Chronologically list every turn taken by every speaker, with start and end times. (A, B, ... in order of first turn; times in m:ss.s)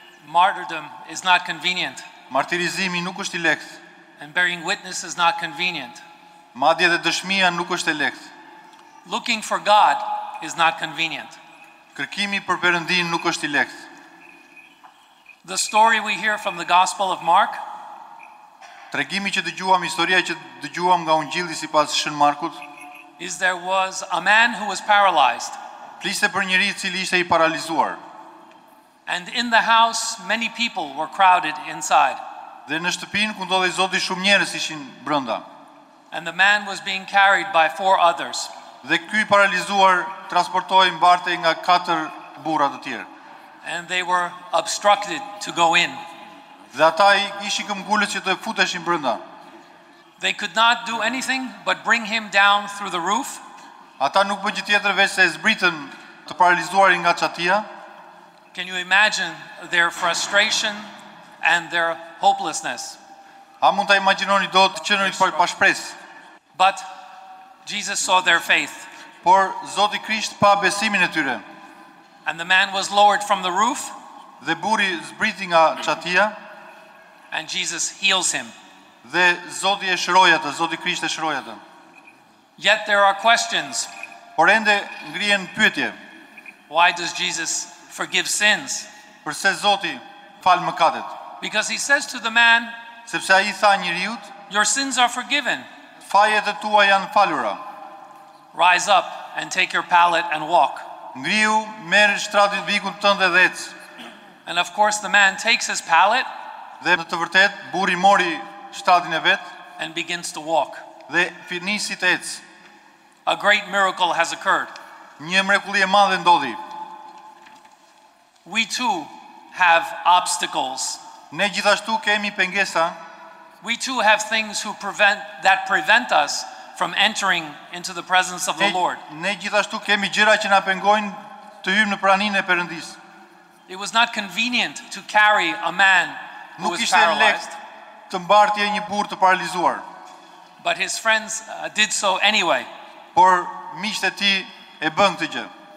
0:00.2-0:02.1 A
0:02.3-0:03.8 B
0:04.2-0:06.0 A
0:06.6-0:08.3 B
0:09.0-0:11.4 A
0:12.0-0:13.8 B
0:15.4-0:17.6 A
0:18.9-0:22.6 B
0:23.2-0:25.6 A
0:26.0-0:28.0 B
0:29.1-0:32.2 A
0:32.7-0:35.4 B
0:36.1-0:38.5 A
0:38.8-0:43.1 B
0:43.6-0:46.0 A
0:46.7-0:49.2 B
0:50.2-0:53.4 A
0:54.0-0:57.7 B
0:58.5-1:03.0 A
1:03.6-1:06.0 B
1:06.6-1:06.9 A
1:07.6-1:08.9 A
1:09.2-1:11.4 B
1:12.2-1:14.0 A
1:14.4-1:16.4 B
1:17.3-1:18.6 A
1:19.0-1:21.6 B
1:22.6-1:23.9 A
1:24.4-1:26.0 B
1:26.7-1:28.9 A
1:29.2-1:31.1 B
1:31.4-1:32.7 A
1:33.1-1:34.3 B
1:34.5-1:35.7 A
1:36.1-1:37.6 B
1:38.5-1:40.9 A
1:41.2-1:43.8 B
1:44.5-1:46.3 A
1:46.8-1:49.5 B
1:49.8-1:50.8 A
1:51.1-1:52.4 B
1:53.3-1:54.7 A
1:55.2-1:56.6 B
1:58.4-2:01.0 A
2:01.3-2:03.0 B
2:03.6-2:09.0 A
2:08.6-2:13.0 B
2:13.7-2:17.6 A
2:16.6-2:17.4 B
2:18.1-2:19.8 B
2:20.6-2:22.7 A
2:23.1-2:25.5 B